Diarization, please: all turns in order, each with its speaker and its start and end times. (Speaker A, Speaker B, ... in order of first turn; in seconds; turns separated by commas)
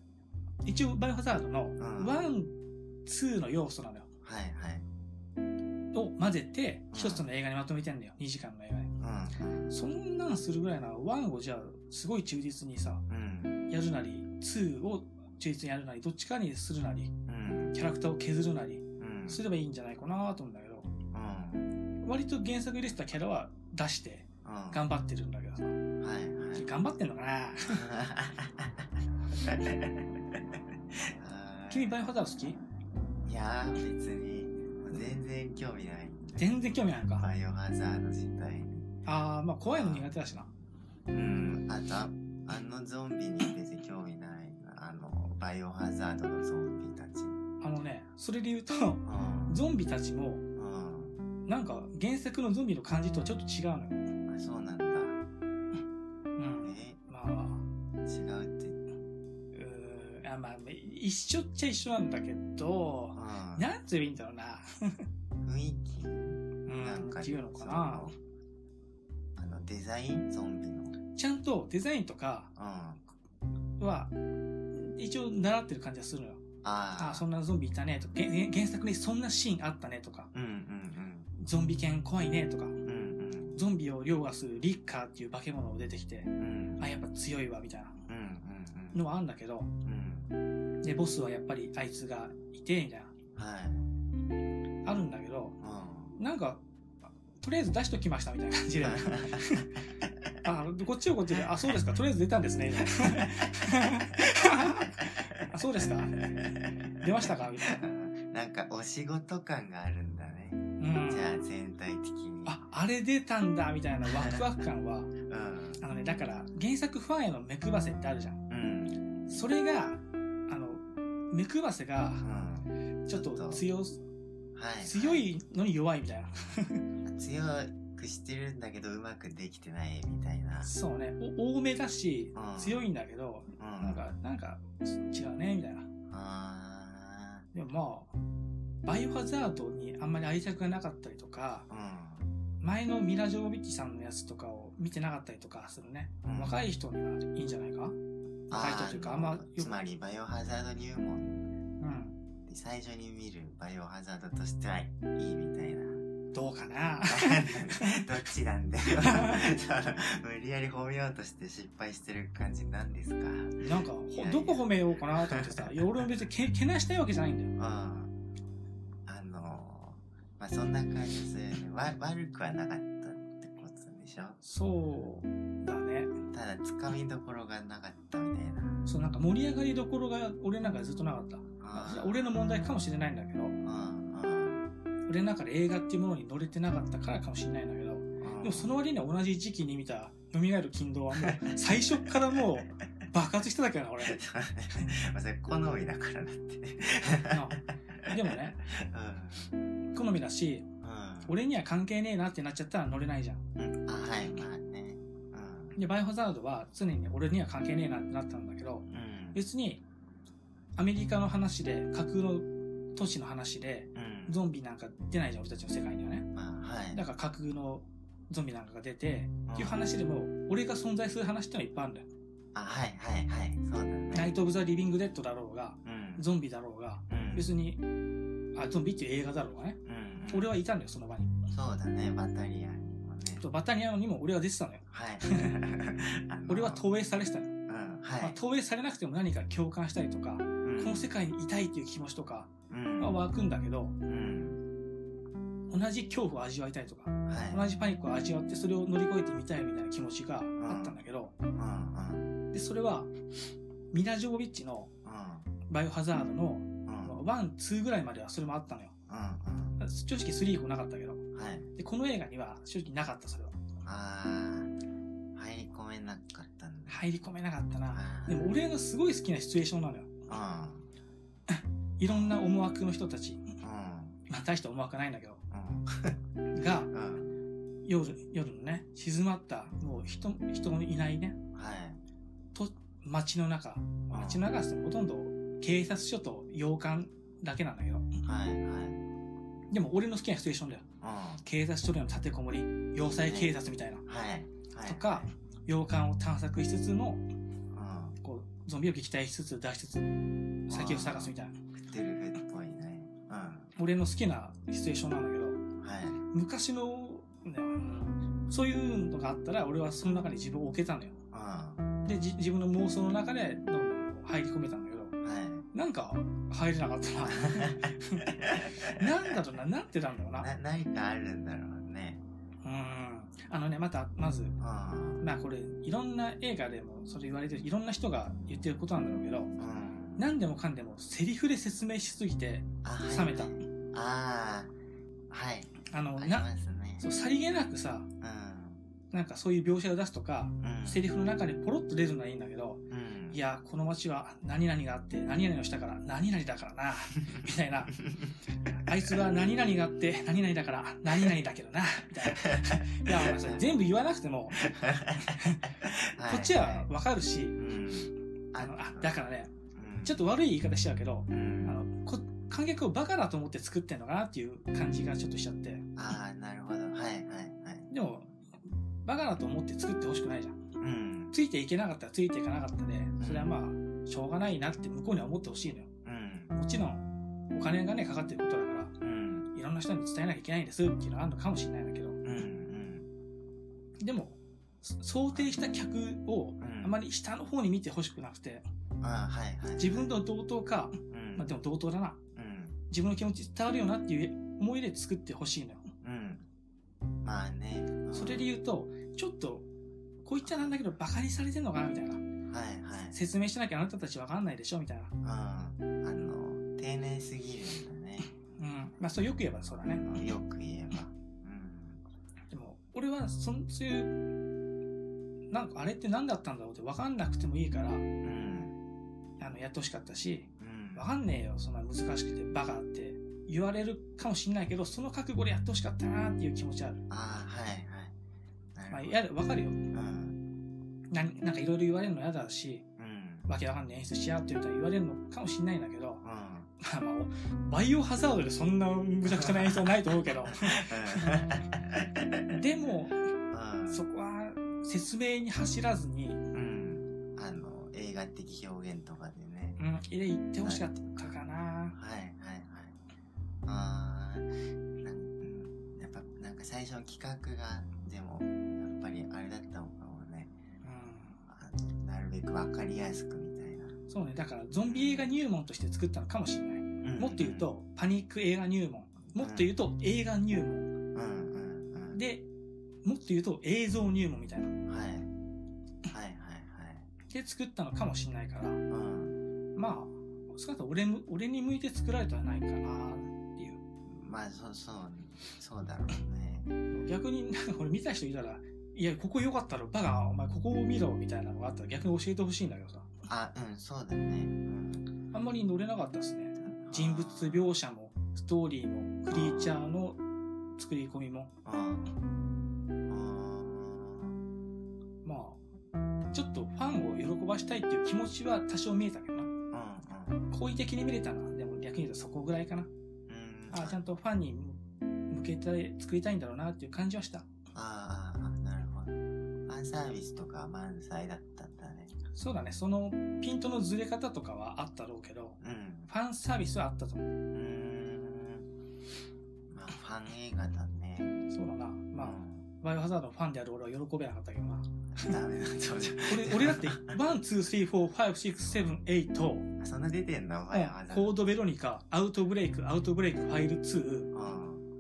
Speaker A: 0.7-4.1, Speaker B: 1.8-2.2, Speaker B: 4.2-4.9, Speaker A: 5.9-8.9, Speaker B: 6.9-7.3, Speaker B: 9.0-9.7, Speaker A: 9.7-13.0, Speaker B: 13.1-13.7, Speaker A: 13.7-17.1, Speaker B: 17.3-17.8, Speaker A: 17.7-20.9, Speaker B: 19.0-19.4, Speaker B: 21.1-21.7, Speaker A: 22.0-25.8, Speaker B: 24.4-24.8, Speaker B: 26.0-26.7, Speaker A: 26.6-27.8, Speaker B: 27.7-32.0, Speaker A: 31.7-32.6, Speaker B: 33.2-38.9, Speaker A: 36.4-37.3, Speaker A: 39.1-40.5, Speaker B: 39.7-40.1, Speaker B: 41.1-47.4, Speaker A: 47.6-50.4, Speaker B: 49.0-49.6, Speaker B: 50.6-51.2, Speaker A: 51.5-54.0, Speaker B: 54.3-55.2, Speaker A: 56.4-57.6, Speaker B: 56.6-57.0, Speaker B: 58.0-58.8, Speaker A: 59.5-65.0, Speaker B: 63.1-63.7, Speaker B: 65.4-68.2, Speaker A: 66.7-68.1, Speaker B: 69.4-71.0, Speaker A: 71.1-72.5, Speaker B: 72.6-73.0, Speaker A: 73.8-74.1, Speaker A: 74.7-76.4, Speaker B: 76.6-77.2, Speaker A: 77.0-80.3, Speaker B: 80.3-81.3, Speaker A: 81.4-82.8, Speaker B: 82.8-83.6, Speaker A: 83.5-88.0, Speaker B: 86.4-86.8, Speaker B: 88.1-89.0, Speaker A: 88.9-89.7, Speaker B: 89.8-90.3, Speaker A: 90.8-93.1, Speaker B: 93.4-93.9, Speaker A: 94.8-95.6, Speaker B: 95.6-96.2, Speaker A: 96.1-96.6, Speaker A: 97.4-99.8, Speaker B: 98.8-99.6, Speaker A: 100.4-106.2, Speaker B: 101.3-101.7, Speaker B: 102.9-104.0, Speaker B: 104.6-105.5, Speaker B: 106.2-112.6, Speaker A: 107.0-107.8, Speaker A: 110.8-111.4, Speaker A: 112.5-115.1, Speaker B: 114.1-114.4, Speaker B: 115.3-115.8, Speaker A: 115.8-118.4, Speaker B: 118.5-119.3, Speaker A: 119.3-122.2, Speaker B: 122.2-123.6, Speaker A: 123.1-124.0, Speaker B: 124.5-125.2, Speaker A: 124.8-126.8, Speaker B: 127.0-130.7, Speaker A: 130.6-135.9, Speaker B: 132.3-132.9, Speaker B: 133.6-134.0, Speaker B: 136.1-137.5, Speaker A: 137.5-138.1, Speaker A: 138.8-141.7, Speaker B: 141.7-142.3, Speaker A: 142.6-148.0, Speaker B: 146.2-146.6, Speaker B: 148.5-151.5, Speaker A: 148.5-149.8, Speaker A: 151.8-152.2, Speaker B: 152.5-156.0, Speaker A: 156.3-158.0, Speaker B: 157.0-165.8, Speaker A: 158.9-159.5, Speaker A: 163.6-167.5, Speaker B: 167.6-168.1, Speaker B: 169.1-174.4, Speaker A: 174.4-176.2, Speaker B: 176.3-178.8, Speaker A: 178.9-183.6, Speaker B: 181.6-182.7, Speaker B: 183.6-184.7, Speaker A: 185.1-194.2, Speaker B: 188.2-188.7, Speaker B: 191.2-192.5, Speaker B: 194.0-199.5, Speaker A: 197.3-198.6, Speaker A: 199.9-200.7, Speaker B: 200.8-201.4, Speaker A: 201.3-203.4, Speaker B: 203.6-205.8, Speaker A: 205.8-209.8, Speaker B: 208.9-209.4, Speaker A: 210.8-216.3, Speaker B: 213.9-214.4, Speaker B: 216.3-217.0, Speaker A: 216.9-222.1, Speaker B: 219.5-219.8, Speaker B: 222.5-224.4, Speaker A: 224.1-227.8, Speaker B: 225.8-226.3, Speaker B: 227.1-227.5, Speaker A: 228.6-229.8, Speaker B: 229.8-230.5, Speaker A: 230.3-231.3, Speaker B: 231.5-233.4, Speaker A: 233.4-235.5, Speaker B: 234.9-236.8, Speaker A: 236.5-237.6, Speaker B: 237.7-238.4, Speaker A: 238.2-244.0, Speaker B: 240.6-241.1, Speaker B: 242.7-243.2, Speaker B: 244.1-244.6, Speaker A: 245.7-251.3, Speaker B: 247.3-247.7, Speaker B: 250.6-251.0, Speaker B: 251.6-252.4, Speaker A: 252.5-253.1, Speaker A: 253.9-254.9, Speaker B: 255.1-255.5, Speaker A: 255.7-258.9, Speaker B: 256.9-257.2, Speaker B: 259.1-259.8, Speaker A: 259.8-261.2, Speaker B: 261.3-261.7, Speaker A: 261.8-263.6, Speaker B: 263.8-264.7, Speaker B: 265.4-267.0, Speaker A: 266.9-270.1, Speaker B: 267.9-268.5, Speaker B: 270.3-270.9, Speaker A: 271.5-273.5, Speaker B: 272.1-272.4, Speaker B: 273.6-274.2, Speaker A: 274.3-275.4, Speaker B: 275.5-276.2, Speaker A: 276.5-276.9, Speaker B: 276.9-277.4, Speaker A: 277.8-281.4, Speaker B: 281.5-282.0, Speaker A: 282.5-288.1, Speaker B: 284.1-284.4, Speaker B: 288.2-289.0, Speaker A: 289.7-290.9, Speaker B: 291.0-291.4, Speaker A: 291.4-294.0, Speaker B: 293.0-295.3, Speaker A: 294.9-297.2, Speaker B: 297.7-298.2, Speaker A: 298.2-300.1, Speaker A: 300.7-301.6, Speaker B: 300.7-303.7, Speaker A: 303.8-305.6, Speaker B: 305.8-306.2, Speaker A: 306.3-311.2, Speaker B: 311.3-311.9, Speaker A: 312.1-315.1, Speaker B: 315.2-315.7, Speaker A: 315.7-320.5, Speaker B: 317.3-319.3, Speaker B: 320.4-322.2, Speaker A: 322.6-324.6, Speaker B: 324.6-325.2, Speaker A: 325.2-329.5, Speaker B: 329.6-330.3, Speaker A: 330.2-333.6, Speaker B: 332.8-334.7, Speaker B: 335.3-337.1, Speaker A: 335.9-336.5, Speaker A: 337.0-338.1, Speaker B: 338.2-338.8, Speaker A: 339.1-348.0, Speaker B: 340.6-341.1, Speaker B: 342.9-343.4, Speaker B: 348.0-348.3, Speaker A: 348.7-354.7, Speaker B: 352.3-353.8, Speaker B: 354.6-356.9, Speaker A: 355.2-355.7, Speaker A: 356.2-357.6, Speaker B: 357.6-359.2, Speaker A: 358.6-359.5, Speaker B: 359.7-360.2, Speaker A: 360.0-365.9, Speaker B: 361.3-361.8, Speaker B: 366.0-367.9, Speaker A: 367.9-368.3, Speaker A: 369.1-370.6, Speaker B: 370.8-371.3, Speaker A: 371.3-375.9, Speaker B: 373.2-373.5, Speaker B: 376.1-376.6, Speaker A: 376.5-378.9, Speaker B: 379.0-379.5, Speaker A: 379.5-382.2, Speaker B: 382.2-383.1, Speaker A: 384.0-388.7, Speaker B: 385.3-385.6, Speaker B: 386.6-386.9, Speaker B: 389.0-390.2, Speaker A: 389.8-392.2, Speaker B: 391.1-391.5, Speaker B: 392.4-392.8, Speaker A: 392.9-395.9, Speaker B: 396.0-396.4, Speaker B: 397.2-398.5, Speaker A: 398.1-399.7, Speaker A: 400.2-402.2, Speaker B: 400.4-400.8, Speaker B: 402.5-403.2, Speaker A: 403.1-405.1, Speaker B: 405.2-408.3, Speaker A: 408.6-410.1, Speaker B: 409.9-412.0, Speaker A: 412.5-414.2, Speaker A: 415.5-418.1, Speaker B: 418.2-418.8, Speaker A: 419.4-427.0, Speaker B: 420.6-421.1, Speaker B: 427.1-428.2, Speaker B: 428.8-429.2, Speaker A: 428.9-429.8, Speaker B: 429.9-430.4, Speaker A: 431.1-432.9, Speaker B: 433.0-433.5, Speaker A: 433.5-436.2, Speaker B: 436.2-436.7, Speaker A: 436.8-441.5, Speaker B: 439.3-443.0, Speaker A: 442.5-443.3, Speaker B: 443.5-444.1, Speaker A: 443.9-446.4, Speaker B: 446.5-449.8, Speaker A: 449.8-452.0, Speaker B: 451.9-453.0, Speaker B: 453.7-460.5, Speaker A: 460.8-461.4, Speaker B: 461.5-464.0, Speaker A: 464.1-470.9, Speaker B: 464.8-465.3, Speaker B: 467.0-467.7, Speaker B: 469.4-469.7, Speaker B: 471.1-472.2, Speaker A: 472.1-472.5, Speaker A: 473.0-474.8, Speaker B: 474.9-475.3, Speaker B: 476.1-477.1, Speaker A: 477.3-478.8, Speaker B: 478.9-479.4, Speaker A: 479.8-483.8, Speaker B: 484.1-486.7, Speaker A: 486.9-493.1, Speaker B: 493.3-495.1, Speaker A: 495.3-500.2, Speaker B: 496.6-497.8, Speaker B: 499.3-499.8, Speaker A: 500.8-501.5, Speaker B: 501.6-502.2, Speaker B: 503.1-504.4, Speaker A: 505.2-505.6, Speaker A: 506.3-509.5, Speaker B: 509.7-510.4, Speaker A: 510.5-512.9, Speaker B: 513.3-514.0, Speaker A: 513.7-517.5, Speaker B: 517.7-522.1, Speaker A: 522.3-527.3, Speaker B: 525.6-526.1, Speaker B: 527.5-528.7, Speaker B: 529.7-531.4, Speaker A: 531.5-535.4, Speaker B: 532.2-532.7, Speaker B: 535.1-537.2, Speaker A: 536.3-539.7, Speaker B: 539.8-541.4, Speaker A: 540.7-544.3, Speaker B: 544.3-544.9